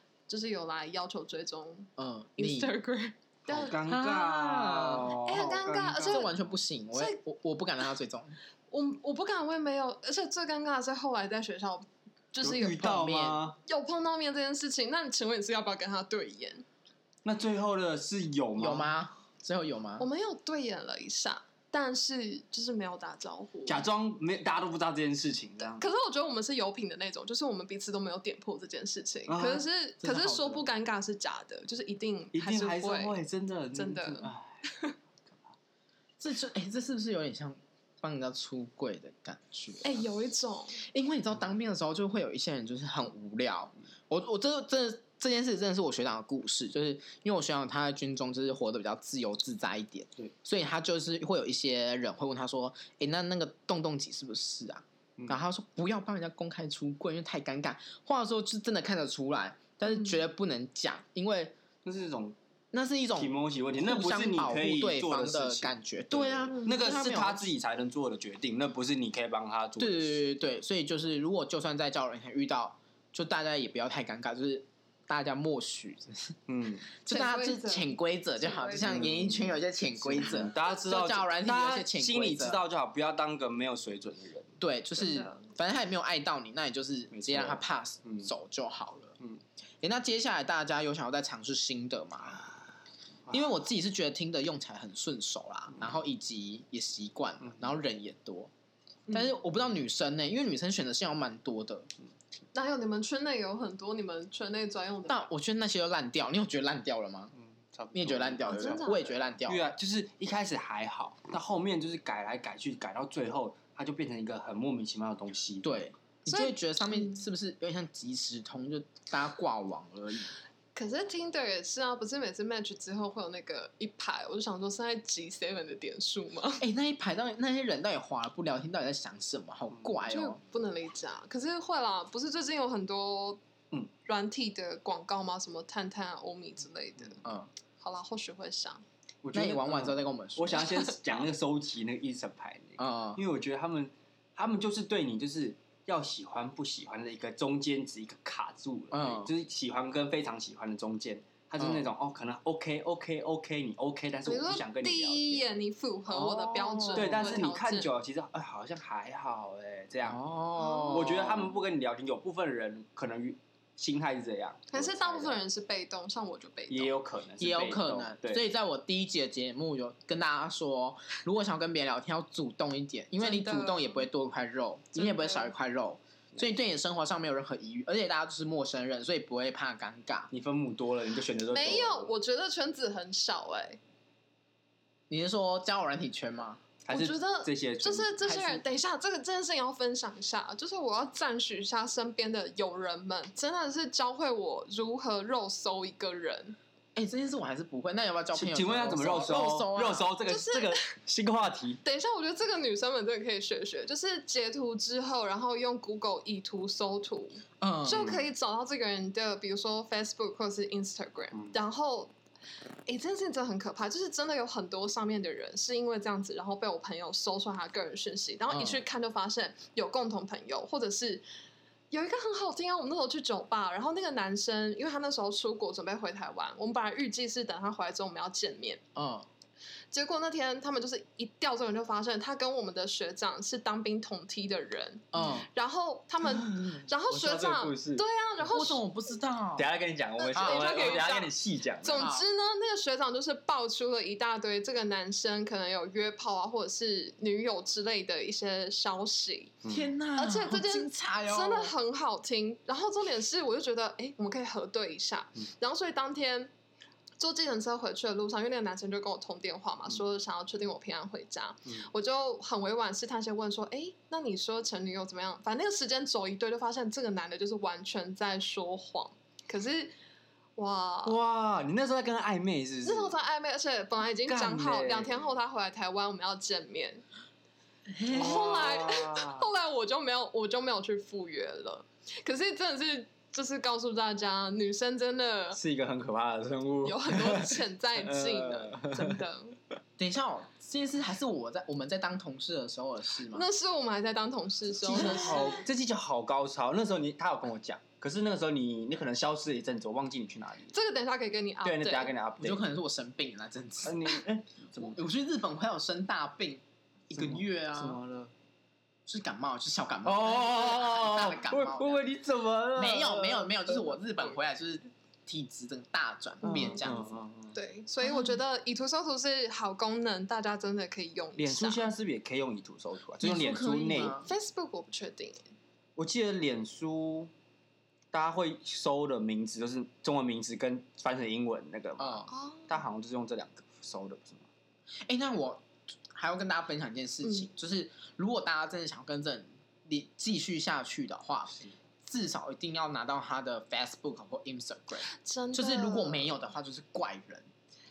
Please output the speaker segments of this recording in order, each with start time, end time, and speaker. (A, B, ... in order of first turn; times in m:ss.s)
0:00.3-0:03.8 A
0:02.0-0:02.7 B
0:03.5-0:06.3 C
0:03.5-0:05.4 B
0:05.2-0:06.3 A
0:06.0-0:08.4 B
0:08.7-0:12.8 A
0:12.4-0:13.6 C
0:12.8-0:13.4 B
0:13.6-0:16.6 A
0:17.2-0:18.9 C
0:18.6-0:20.1 B
0:20.0-0:23.8 A
0:23.7-0:25.9 C
0:25.8-0:33.2 A
0:29.3-0:29.6 C
0:30.0-0:30.7 B
0:32.3-0:34.6 C
0:33.7-0:34.9 A
0:36.2-0:40.0 B
0:39.8-0:40.8 A
0:40.8-1:01.6 B
1:01.8-1:02.4 C
1:02.7-1:07.4 B
1:03.2-1:10.2 C
1:09.8-1:16.4 B
1:16.5-1:16.9 C
1:17.0-1:22.6 B
1:17.1-1:19.1 A
1:18.8-1:24.5 C
1:24.6-1:29.2 B
1:25.0-1:25.5 A
1:27.1-1:28.3 C
1:29.8-1:32.4 B
1:33.3-1:38.5 B
1:39.1-1:41.9 B
1:42.5-1:45.2 A
1:45.1-1:47.3 B
1:47.4-1:48.8 C
1:47.9-1:49.7 B
1:48.4-1:49.2 A
1:49.4-1:55.8 C
1:55.6-2:00.3 B
1:56.3-1:57.2 A
2:00.7-2:06.6 A
2:06.6-2:10.4 B
2:10.1-2:13.4 A
2:14.0-2:17.2 A
2:17.2-2:17.5 B
2:17.8-2:18.8 A
2:19.2-2:35.4 C
2:19.3-2:20.7 B
2:22.8-2:23.2 B
2:28.9-2:29.3 B
2:31.6-2:31.9 B
2:34.2-2:37.9 A
2:36.1-2:37.4 B
2:37.0-2:40.2 C
2:40.0-2:41.6 B
2:40.6-2:41.1 A
2:40.9-2:45.4 C
2:44.7-2:47.0 A
2:46.7-2:48.4 C
2:47.4-3:00.3 B
2:53.2-2:54.0 A
2:55.0-2:55.5 A
3:00.3-3:02.1 C
3:01.5-3:03.8 A
3:05.1-3:06.6 B
3:06.9-3:08.3 C
3:06.9-3:16.6 A
3:08.2-3:08.6 B
3:17.0-3:20.1 B
3:18.3-3:21.8 C
3:20.3-3:20.8 A
3:21.8-3:32.1 A
3:27.6-3:28.1 B
3:32.9-3:41.2 A
3:38.5-3:38.8 B
3:41.9-3:48.8 A
3:49.0-3:49.3 B
3:49.9-3:58.8 A
3:55.1-3:55.5 B
3:56.2-3:58.0 C
3:58.4-3:59.7 B
3:59.6-4:02.1 C
4:00.2-4:01.3 A
4:00.3-4:01.2 B
4:01.8-4:09.5 A
4:02.0-4:02.3 B
4:09.6-4:09.9 C
4:09.7-4:11.7 B
4:10.2-4:16.5 A
4:17.2-4:29.9 A
4:30.6-4:31.2 A
4:31.0-4:33.1 C
4:32.8-4:37.0 A
4:34.2-4:35.3 C
4:37.9-4:38.8 B
4:38.1-4:39.5 C
4:38.1-4:45.6 A
4:45.5-4:49.2 C
4:46.8-4:49.6 A
4:50.0-4:53.5 B
4:53.3-4:55.6 A
4:54.8-4:55.6 B
4:54.9-5:00.7 C
5:00.7-5:02.1 A
5:01.6-5:02.7 C
5:02.4-5:04.2 B
5:03.8-5:05.0 C
5:04.8-5:08.0 B
5:07.1-5:08.3 C
5:09.0-5:12.0 B
5:10.0-5:13.9 C
5:12.8-5:17.2 B
5:16.4-5:17.5 C
5:17.5-5:21.8 A
5:18.0-5:18.3 B
5:21.4-5:24.2 C
5:23.2-5:24.3 B
5:24.2-5:25.4 A
5:26.0-5:27.3 C
5:28.1-5:34.5 C
5:32.0-5:32.3 B
5:32.3-5:32.8 A
5:35.0-5:47.5 B
5:37.2-5:37.5 A
5:45.0-5:46.3 A